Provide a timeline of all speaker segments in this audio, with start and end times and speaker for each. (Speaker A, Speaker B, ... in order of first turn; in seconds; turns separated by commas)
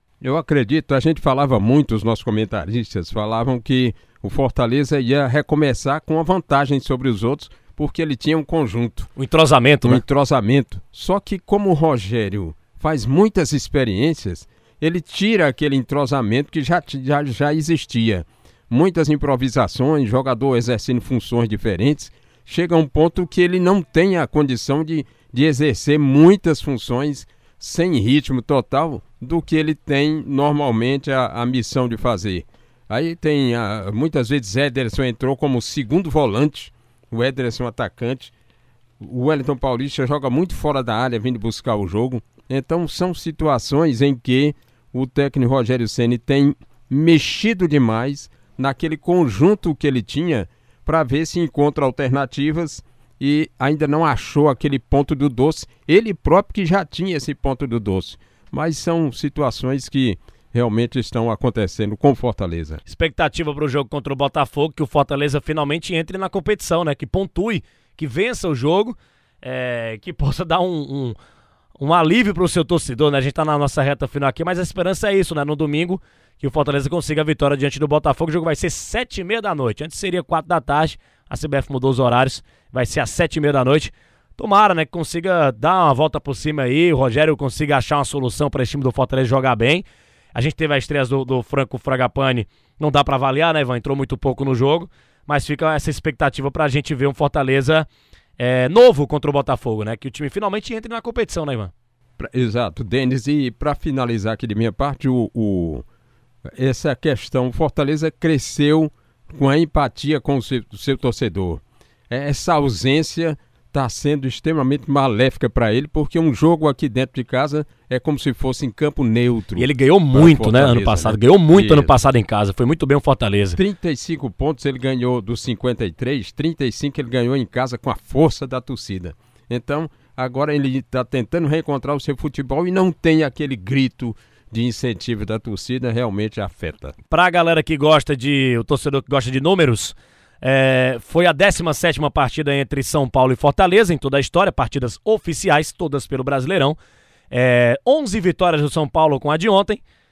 Speaker A: 0.2-9.1, Speaker B: 9.2-10.0, Speaker A: 9.8-38.3, Speaker A: 39.0-62.8, Speaker B: 62.9-71.2, Speaker B: 71.8-97.9, Speaker B: 98.4-101.7, Speaker A: 102.2-105.8, Speaker A: 106.5-122.0, Speaker B: 119.5-123.6, Speaker A: 123.5-136.9, Speaker B: 137.1-146.8, Speaker B: 147.3-149.8